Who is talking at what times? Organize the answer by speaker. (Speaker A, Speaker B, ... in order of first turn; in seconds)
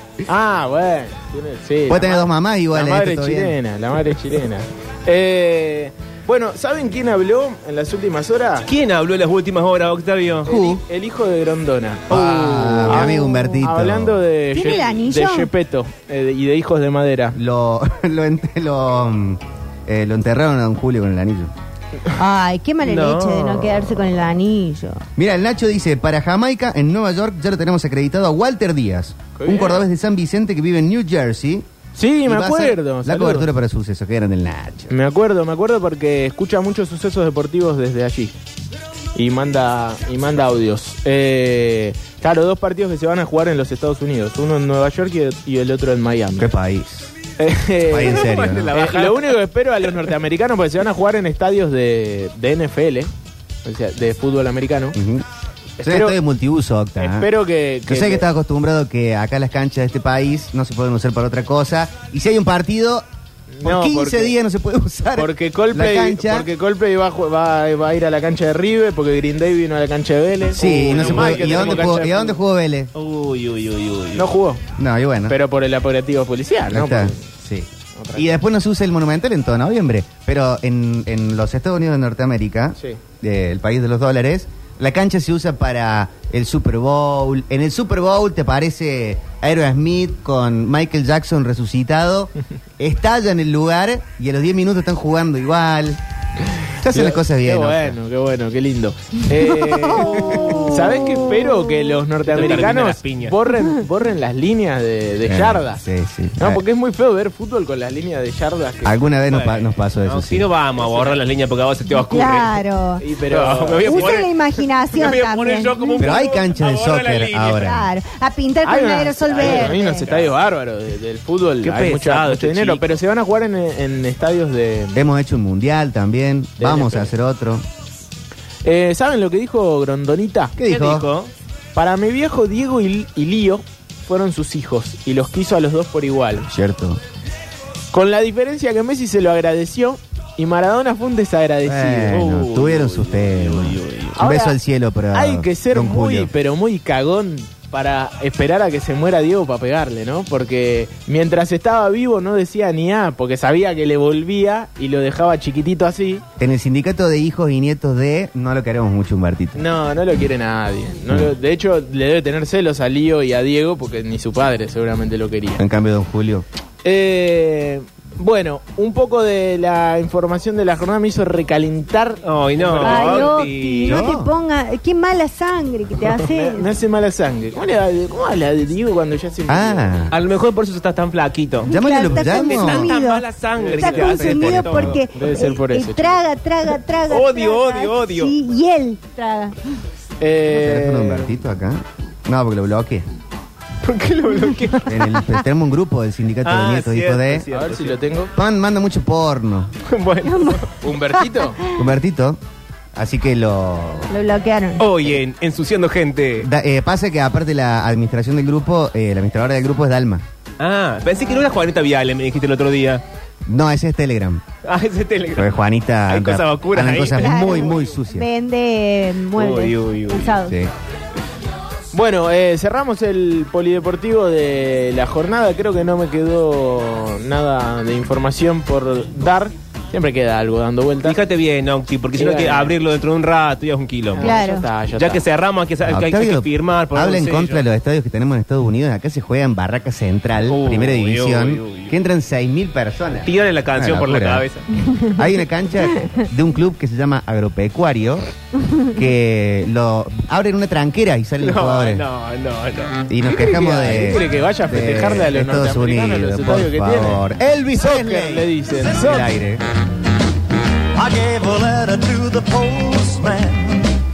Speaker A: 0.3-8.7, 10.5-17.4, 29.4-29.8, 31.9-33.5, 34.9-38.4, 39.1-46.5, 47.4-53.1, 53.6-55.0, 55.8-56.2, 57.0-58.2, 63.5-64.3, 65.2-72.4, 74.2-74.6, 75.3-77.2, 78.0-78.4, 96.9-105.8, 106.4-109.2, 110.8-111.2, 113.0-114.1, 118.6-125.0, 126.6-127.1, 128.7-130.6, 131.8-136.5, 137.9-143.0, 144.2-144.6, 145.1-156.2, 159.6-165.7, 166.8-173.4, 176.1-180.1, 183.6-184.2, 185.1-186.2, 190.2-191.3, 197.5-198.3, 200.8-201.6, 221.9-231.2, 232.2-232.8, 234.2-235.2, 253.2-257.2, 257.8-259.3
Speaker B: 1.9-3.6, 10.5-10.8, 12.1-14.2, 17.4-21.5, 25.2-31.7, 32.2-34.9, 46.4-47.1, 47.9-48.7, 55.0-55.2, 55.8-57.3, 57.9-63.1, 63.6-66.5, 70.5-72.9, 74.8-75.4, 76.7-96.0, 96.8-98.0, 100.0-100.6, 105.2-106.6, 108.8-110.5, 116.0-117.9, 125.0-127.7, 130.6-131.1, 136.5-137.0, 141.6-146.3, 156.4-159.6, 165.6-166.5, 173.9-174.3, 179.5-180.1, 181.7-182.9, 184.2-185.0, 190.5-193.1, 194.9-197.5, 198.3-199.7, 201.7-202.4, 202.9-204.1, 206.4-210.2, 213.5-214.4, 215.4-218.3, 235.9-244.5, 245.1-252.0, 253.1-259.6
Speaker C: 8.7-10.5, 22.8-23.9, 48.0-49.4, 70.8-72.0, 73.0-74.3, 102.3-103.4, 109.3-112.6, 113.3-117.7, 119.4-120.3, 121.6-123.0, 130.7-131.3, 143.4-144.1, 172.2-174.1, 180.1-185.0, 187.1-188.3, 193.8-195.1, 196.4-198.0, 199.9-200.7, 204.8-206.5, 210.6-213.0, 214.7-217.8, 219.4-220.3, 231.0-234.4, 235.0-237.7, 240.5-241.9, 243.2-244.7, 251.4-252.9
Speaker D: 12.9-13.6, 14.5-15.5, 22.1-25.0, 100.2-100.6, 111.9-113.0, 113.9-116.3, 117.4-120.1, 172.8-176.7, 181.7-189.6, 194.5-194.8, 200.2-200.7, 204.1-204.8, 217.1-220.6, 234.2-234.7
Speaker E: 258.8-259.2, 260.9-263.9